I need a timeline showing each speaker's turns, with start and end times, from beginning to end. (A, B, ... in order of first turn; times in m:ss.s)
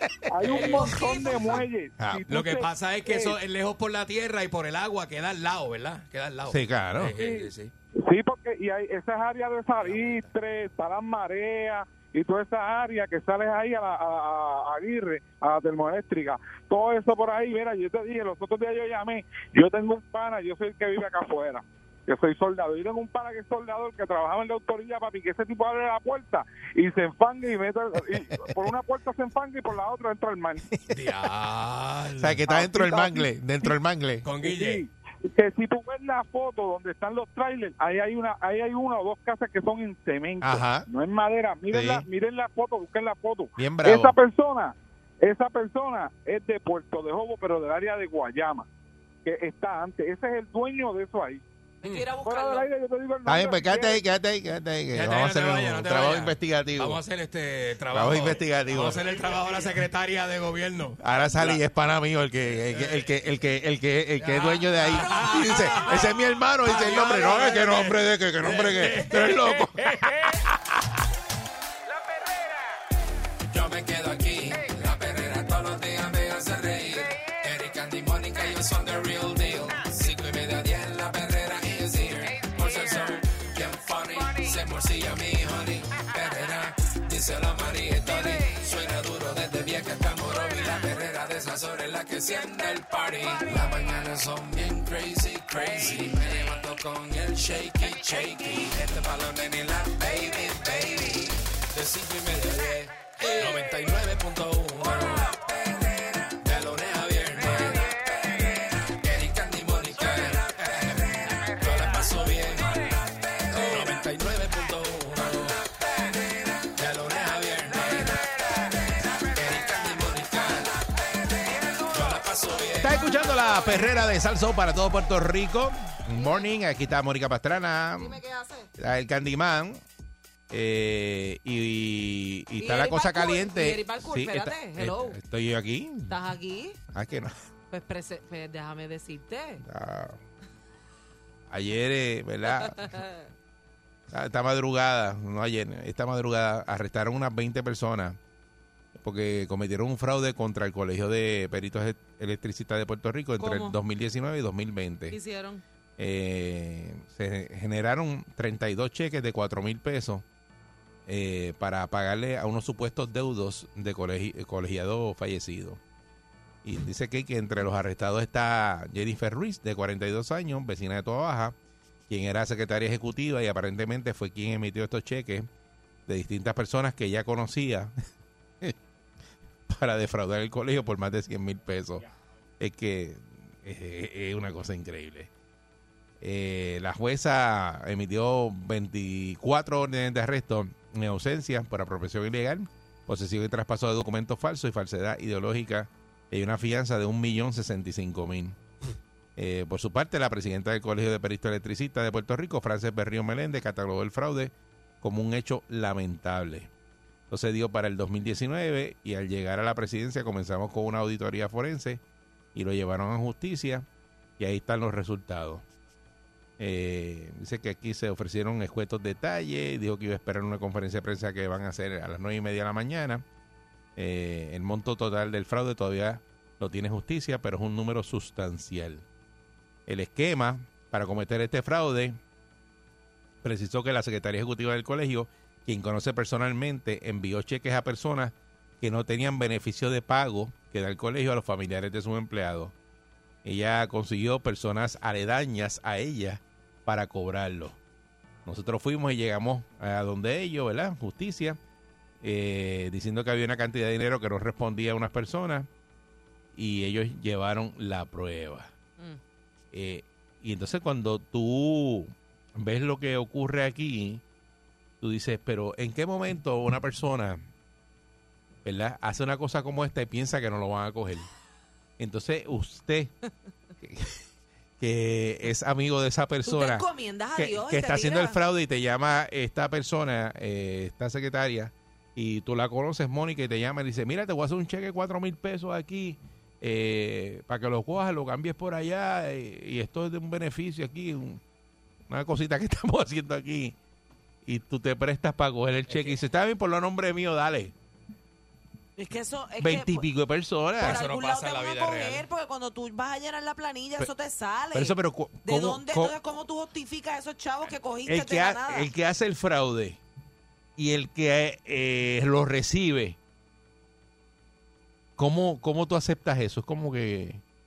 0:00.3-0:03.4 A
0:00.4-0:01.6 B
0:00.6-0:01.5 C
0:02.0-0:02.2 D
0:02.3-0:07.7 B
0:06.5-0:07.1 D
0:07.2-0:07.5 A
0:08.0-0:30.6 A
0:09.8-0:10.3 B
0:30.9-0:32.4 B
0:32.2-0:34.2 D
0:32.5-0:33.7 A
0:34.2-0:34.8 B
0:34.4-0:48.7 A
0:40.4-0:40.9 D
0:41.7-0:42.0 D
0:43.6-0:44.1 D
0:49.2-0:51.4 A
0:51.8-0:52.1 B
0:51.8-0:52.7 C
0:52.2-0:54.0 A
0:53.2-0:57.0 D
0:54.9-1:01.6 B
0:57.9-0:59.0 D
1:01.0-1:10.5 D
1:02.7-1:03.1 B
1:04.2-1:10.3 B
1:13.5-1:53.0 E
1:43.4-1:43.7 B
1:53.5-1:58.3 E
1:59.2-2:03.3 E
2:02.8-2:08.2 D
2:06.1-2:06.5 C
2:08.0-2:08.7 C
2:08.8-2:09.8 D
2:10.5-2:16.2 D
2:12.6-2:15.2 C
2:16.1-2:16.8 C
2:16.9-2:17.3 D
2:17.7-2:19.6 C
2:19.6-2:20.2 D
2:21.5-2:23.0 D
2:22.6-2:23.2 C
2:24.1-2:28.2 D
2:29.0-2:35.2 D
2:33.4-2:33.8 C
2:35.1-2:35.6 C
2:36.0-2:40.2 D
2:41.1-2:45.8 D
2:46.6-2:51.6 D
2:52.1-2:55.5 D
2:56.1-2:57.9 D
2:59.7-3:02.0 D
3:02.6-3:05.3 D
3:06.2-3:18.6 D
3:19.4-3:26.7 D
3:27.3-3:32.0 D
3:32.5-3:33.8 D
3:34.4-3:35.6 D
3:36.6-3:43.2 D
3:44.0-3:49.0 D
3:49.9-3:52.2 D
3:53.4-4:02.7 D
4:03.4-4:07.8 D
4:08.4-4:11.6 D
4:12.2-4:15.7 D
4:16.5-4:18.7 D
4:19.7-4:24.2 D
4:25.0-4:27.4 D
4:28.6-4:31.3 D
4:32.0-4:33.1 D
4:33.8-4:34.2 D
4:34.8-4:51.4 D
4:36.4-4:38.4 C
4:52.1-4:53.7 D
4:54.4-4:57.7 D
4:55.9-4:56.2 B
4:59.0-5:00.0 C
4:59.6-5:01.0 D
5:00.8-5:08.9 C
5:00.8-5:02.3 B
5:04.7-5:06.2 D
5:08.0-5:10.0 D
5:10.8-5:13.2 D
5:15.2-5:17.4 D